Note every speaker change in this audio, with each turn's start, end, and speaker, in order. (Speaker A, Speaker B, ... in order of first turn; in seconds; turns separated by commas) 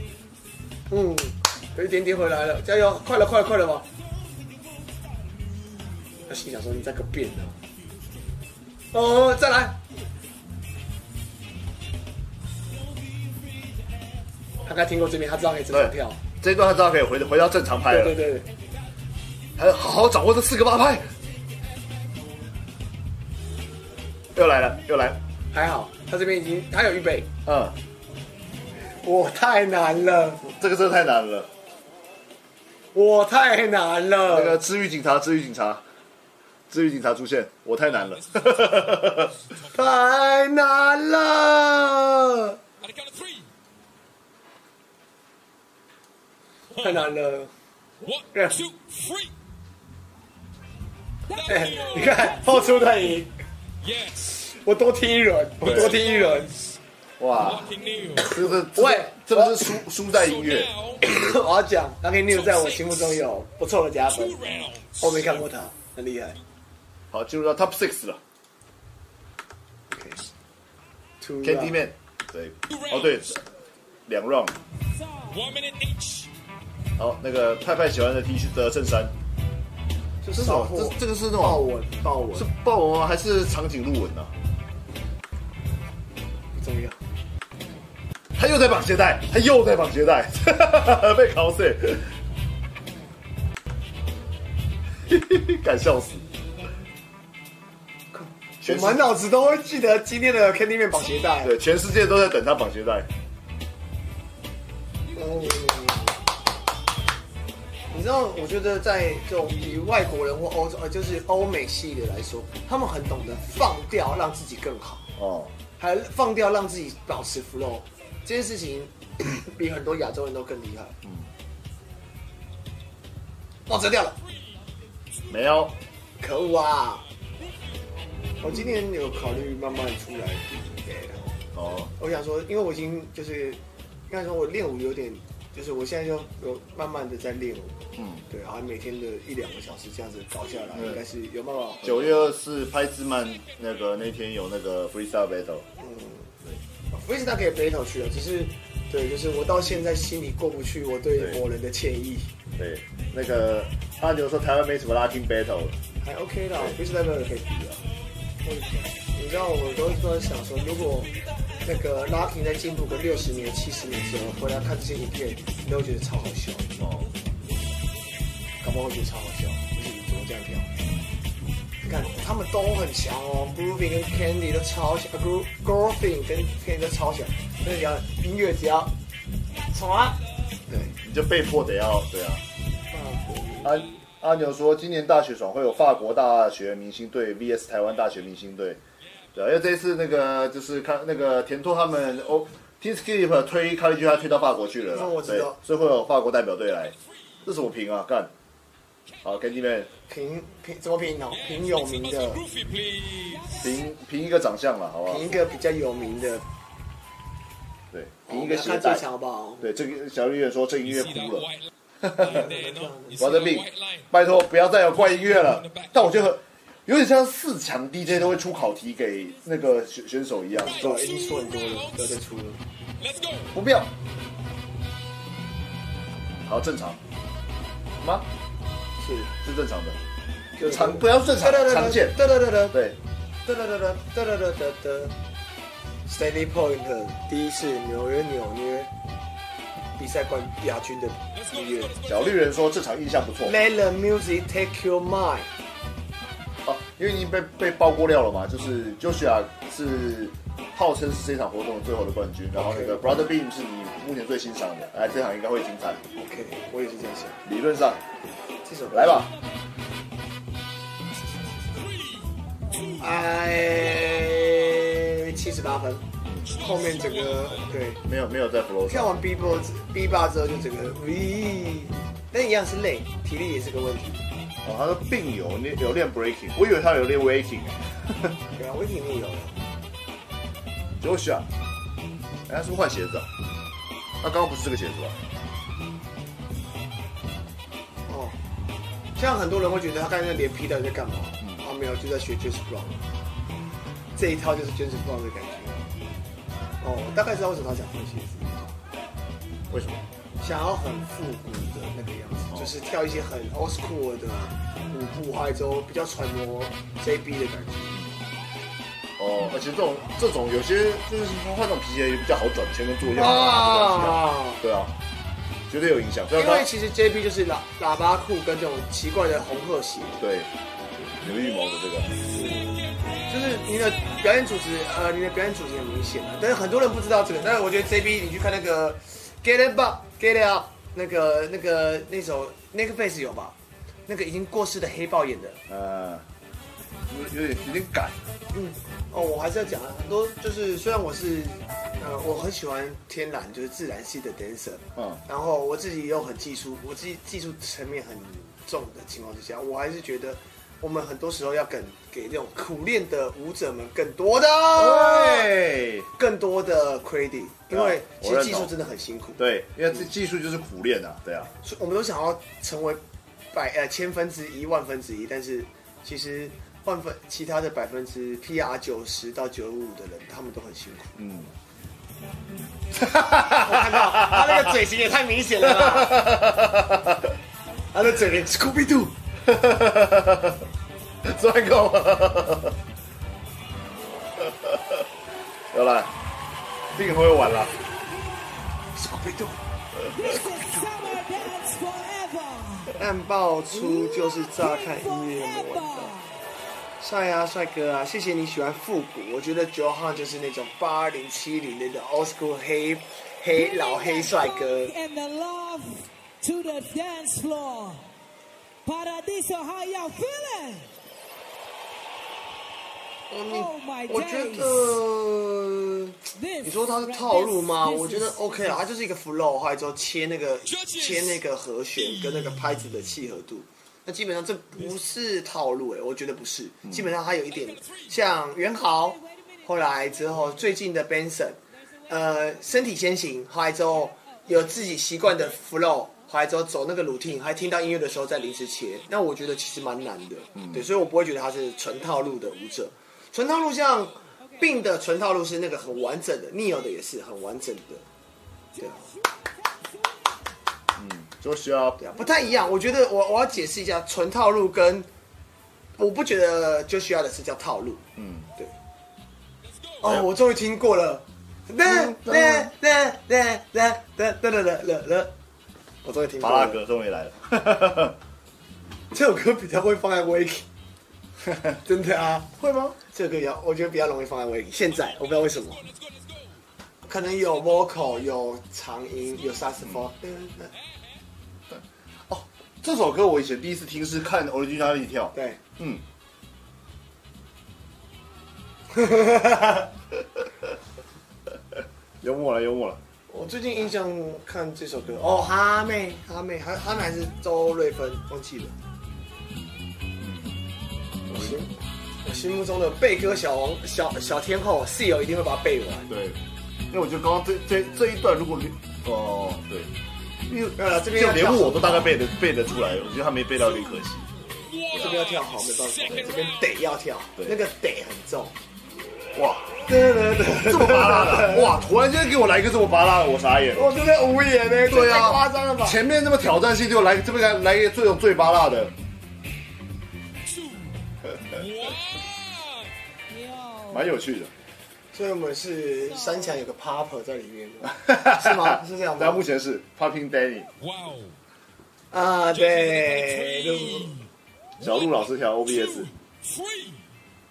Speaker A: 0.9-3.9, Speaker A: 6.3-7.6, Speaker A: 8.9-9.8, Speaker A: 14.6-16.2, Speaker B: 15.7-18.2, Speaker A: 17.9-18.5, Speaker B: 19.6-21.1, Speaker B: 24.3-25.2, Speaker A: 25.5-27.3, Speaker B: 27.4-27.8, Speaker A: 29.0-30.4, Speaker B: 30.4-31.5, Speaker A: 32.9-34.6, Speaker B: 34.3-35.8, Speaker B: 36.7-39.3, Speaker C: 38.1-39.8, Speaker A: 39.7-42.6, Speaker C: 42.8-43.5, Speaker A: 46.8-47.5, Speaker C: 48.0-49.3, Speaker D: 51.3-52.2, Speaker C: 51.4-52.4, Speaker A: 51.4-53.3, Speaker C: 53.8-54.2, Speaker A: 54.2-56.7, Speaker B: 55.6-56.0, Speaker B: 57.2-60.7, Speaker C: 57.4-58.4, Speaker A: 58.3-59.8, Speaker C: 60.1-61.1, Speaker A: 61.0-64.5, Speaker C: 62.3-63.2, Speaker C: 64.1-65.4, Speaker A: 65.0-66.4, Speaker B: 67.1-68.2, Speaker A: 69.9-70.2, Speaker A: 71.2-71.8, Speaker B: 71.4-73.4, Speaker C: 72.7-73.2, Speaker B: 74.0-74.6, Speaker C: 75.3-76.3, Speaker B: 77.0-79.1, Speaker A: 80.2-82.5, Speaker B: 80.3-81.6, Speaker B: 82.3-84.3, Speaker A: 86.5-87.0, Speaker B: 88.3-92.1, Speaker B: 95.1-96.2, Speaker A: 98.1-101.5, Speaker B: 98.6-99.0, Speaker B: 101.4-103.1, Speaker A: 105.1-106.2, Speaker A: 107.9-115.1, Speaker B: 115.2-115.5, Speaker A: 115.8-121.0, Speaker A: 123.7-124.2, Speaker B: 125.3-125.7, Speaker A: 126.2-127.0, Speaker A: 128.4-131.3, Speaker B: 128.4-128.7, Speaker B: 131.5-131.9, Speaker A: 132.0-142.3, Speaker B: 138.0-138.2, Speaker B: 140.7-141.0, Speaker B: 141.8-145.7, Speaker A: 145.8-146.3, Speaker A: 146.9-152.3, Speaker B: 152.6-155.8, Speaker A: 156.0-157.8, Speaker A: 158.4-161.1, Speaker A: 161.6-166.8, Speaker B: 166.8-167.1, Speaker A: 168.6-170.7, Speaker A: 171.8-178.9, Speaker A: 179.7-180.9, Speaker B: 181.0-182.4, Speaker A: 182.9-184.0, Speaker B: 183.6-188.8, Speaker B: 189.3-198.3, Speaker A: 194.9-195.6, Speaker B: 199.2-199.9, Speaker A: 200.1-202.4, Speaker C: 201.5-203.5, Speaker B: 203.6-205.3, Speaker A: 205.1-206.4, Speaker B: 207.9-209.0, Speaker A: 208.3-209.7, Speaker B: 209.6-211.5, Speaker C: 210.9-211.7, Speaker B: 212.0-212.4, Speaker A: 212.2-213.3, Speaker C: 212.2-214.0, Speaker B: 213.2-221.0, Speaker C: 214.9-216.1, Speaker A: 220.5-222.6, Speaker C: 221.1-221.6, Speaker C: 223.0-223.5, Speaker B: 223.5-223.9, Speaker B: 226.4-227.0, Speaker B: 228.0-228.2, Speaker A: 229.0-229.3, Speaker B: 229.4-230.0, Speaker A: 230.6-232.8, Speaker B: 230.6-232.2, Speaker B: 232.7-233.0, Speaker A: 233.4-235.1, Speaker A: 236.1-238.9, Speaker A: 240.0-241.9, Speaker C: 241.5-242.2, Speaker B: 242.0-243.7, Speaker A: 243.4-245.5, Speaker B: 246.6-256.0, Speaker A: 252.5-253.1, Speaker A: 256.2-257.4, Speaker B: 257.4-258.0, Speaker A: 258.6-259.3, Speaker B: 258.9-259.3, Speaker A: 263.0-266.0, Speaker A: 266.6-268.0, Speaker C: 266.7-267.5, Speaker B: 268.0-269.2, Speaker A: 268.9-274.2, Speaker B: 274.6-278.4, Speaker A: 278.5-279.6, Speaker B: 281.0-281.5, Speaker B: 282.5-283.3, Speaker B: 284.2-285.1, Speaker A: 288.1-288.4, Speaker A: 289.1-293.0, Speaker A: 294.1-295.9, Speaker A: 296.8-298.8, Speaker B: 299.7-300.0, Speaker A: 300.4-308.0, Speaker B: 309.2-314.9, Speaker A: 313.1-314.6, Speaker B: 315.7-316.7, Speaker A: 316.3-320.2, Speaker B: 320.2-320.5, Speaker B: 321.2-322.2, Speaker A: 322.3-333.6, Speaker A: 334.1-335.6, Speaker B: 335.7-336.2, Speaker B: 337.1-338.1, Speaker A: 338.5-355.5, Speaker B: 354.7-356.1, Speaker A: 356.1-359.4, Speaker B: 357.7-358.7, Speaker B: 359.4-361.5, Speaker A: 361.6-363.0, Speaker A: 363.5-371.1, Speaker B: 371.2-371.5, Speaker B: 372.9-374.7, Speaker A: 373.5-376.3, Speaker B: 375.6-377.3, Speaker A: 377.9-379.1, Speaker B: 379.4-380.6, Speaker B: 381.2-382.8, Speaker B: 384.4-385.0, Speaker B: 385.7-386.1, Speaker B: 386.9-387.7, Speaker D: 388.1-388.7, Speaker A: 388.9-389.6, Speaker D: 390.1-392.9, Speaker A: 390.2-390.6, Speaker A: 392.9-396.1, Speaker D: 393.7-396.4, Speaker A: 397.0-404.9, Speaker D: 403.5-408.1, Speaker D: 408.8-410.9, Speaker A: 413.3-448.0, Speaker D: 413.4-415.0, Speaker D: 416.3-418.8, Speaker C: 420.7-421.4, Speaker B: 440.6-440.8, Speaker A: 448.8-449.1, Speaker D: 448.8-450.1, Speaker B: 451.0-452.0, Speaker A: 452.0-455.1, Speaker A: 456.0-458.0, Speaker B: 458.1-458.5, Speaker A: 460.0-465.3, Speaker B: 461.9-462.7, Speaker A: 466.0-466.8, Speaker B: 466.4-468.1, Speaker A: 469.1-470.6, Speaker A: 471.8-475.8, Speaker B: 472.6-473.0, Speaker A: 477.1-480.7, Speaker B: 482.3-486.0, Speaker A: 485.3-485.6, Speaker A: 488.9-489.9, Speaker B: 492.2-493.0, Speaker A: 493.3-498.8, Speaker B: 500.2-500.5, Speaker A: 501.3-501.7, Speaker A: 502.2-506.1, Speaker B: 506.1-506.4, Speaker B: 506.9-509.9, Speaker B: 510.5-515.2, Speaker A: 510.8-512.1, Speaker C: 514.6-516.5, Speaker A: 515.0-518.5, Speaker B: 519.3-519.7, Speaker A: 519.9-521.8, Speaker B: 520.5-523.9, Speaker A: 523.7-526.0, Speaker B: 524.9-528.9, Speaker C: 530.4-532.9, Speaker D: 533.3-534.0, Speaker B: 533.9-534.5, Speaker A: 535.1-539.4, Speaker D: 536.1-536.5, Speaker B: 538.0-540.7, Speaker C: 540.8-541.4, Speaker A: 542.1-544.2, Speaker C: 542.5-544.2, Speaker B: 544.8-546.1, Speaker C: 544.8-547.0